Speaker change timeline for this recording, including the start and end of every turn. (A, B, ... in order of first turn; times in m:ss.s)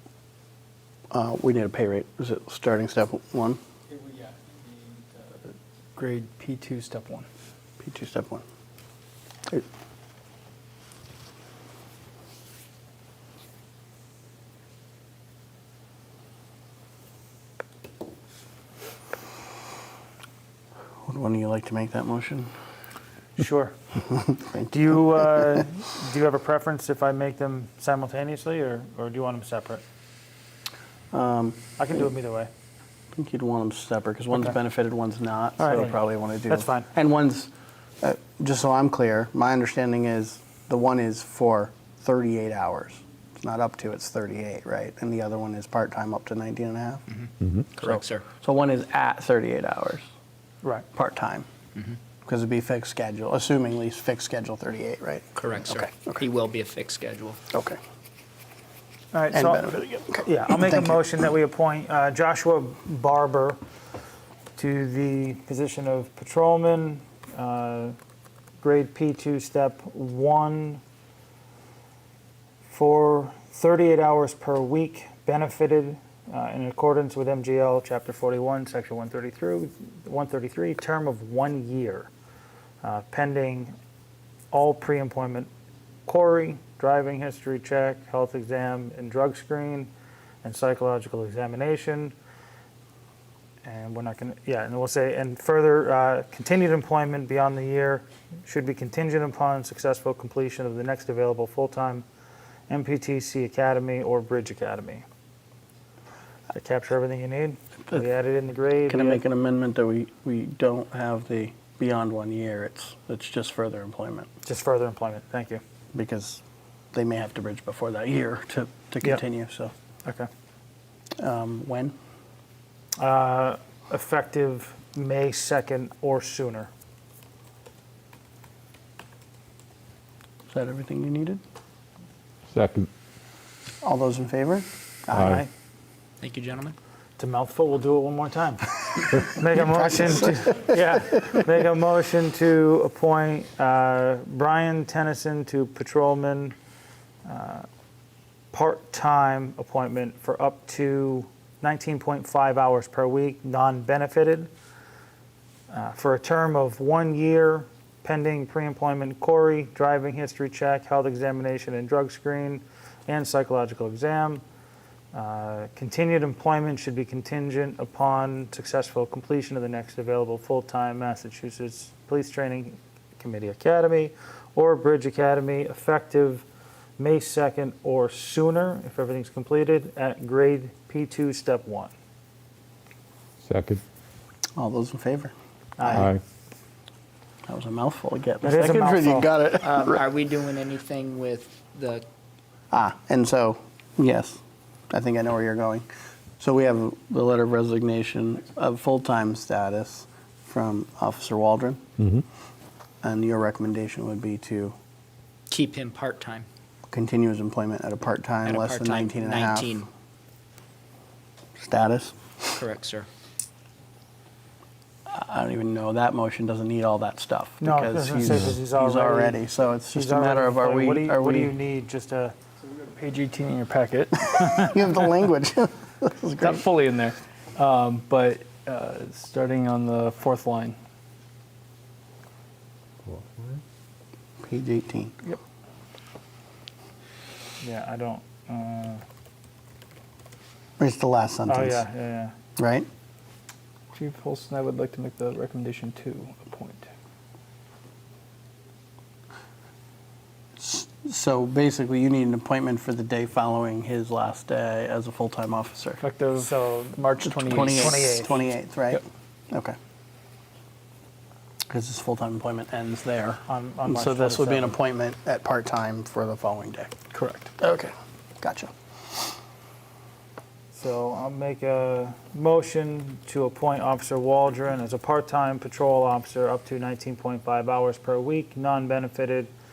0:01.1-0:03.6 A
0:03.9-0:07.3 B
0:07.8-0:08.4 A
0:21.0-0:22.5 A
0:23.4-0:23.7 C
0:24.1-0:25.3 A
0:24.7-0:29.8 C
0:31.1-0:31.6 A
0:31.8-0:32.5 C
0:33.1-0:47.0 A
0:35.6-0:36.9 C
0:47.1-0:48.2 D
0:47.8-0:50.0 A
0:50.9-0:51.5 A
0:52.2-0:56.2 A
0:55.4-0:57.4 D
0:57.5-0:57.8 A
0:59.1-0:59.6 C
0:59.3-1:01.0 A
1:00.2-1:03.6 C
1:04.6-1:07.9 C
1:08.6-1:10.8 C
1:12.7-1:22.1 C
1:22.8-1:23.7 C
1:24.5-1:25.5 C
1:26.1-1:29.9 C
1:30.4-1:32.1 C
1:33.6-1:42.0 C
1:42.7-1:45.0 C
1:46.5-1:49.2 C
1:48.9-1:54.3 A
1:54.4-1:55.6 C
1:55.9-1:56.4 A
1:56.9-1:59.7 A
2:01.2-2:01.9 A
2:03.0-2:06.7 C
2:10.5-2:11.4 A
2:12.5-2:12.9 E
2:13.8-2:15.3 A
2:15.1-2:15.5 C
2:15.1-2:15.4 E
2:16.2-2:16.8 D
2:17.2-2:26.6 C
2:19.7-2:20.7 A
2:27.2-2:27.6 C
2:28.5-2:34.5 C
2:35.7-2:44.4 C
2:45.1-2:56.4 C
2:57.0-3:01.9 C
3:03.4-3:03.8 E
3:04.6-3:06.1 A
3:05.8-3:06.1 C
3:05.9-3:06.2 E
3:07.5-3:10.0 A
3:08.4-3:09.3 C
3:09.6-3:12.0 D
3:12.7-3:15.8 A
3:16.4-3:21.8 A
3:23.0-3:24.8 A
3:25.5-3:26.5 D
3:26.9-3:29.8 A
3:28.4-3:29.9 D
3:31.6-3:32.6 A
3:32.5-3:33.1 D
3:35.1-3:41.5 A
3:37.6-3:42.4 C
3:42.7-3:44.7 B
3:44.3-3:46.6 A
3:46.4-3:50.8 B
3:53.0-3:53.6 E
3:54.4-3:55.3 A
3:57.6-3:59.0 C
4:00.8-4:01.8 A
4:01.5-4:02.3 C
4:02.6-4:02.9 A
4:03.9-4:06.9 B
4:10.6-4:16.0 A
4:16.0-4:18.1 B
4:16.4-4:18.4 C
4:17.2-4:19.8 A
4:21.7-4:27.0 A
4:23.5-4:24.5 C
4:23.9-4:24.8 B
4:27.1-4:27.5 B
4:27.6-4:28.7 A
4:30.7-4:39.5 C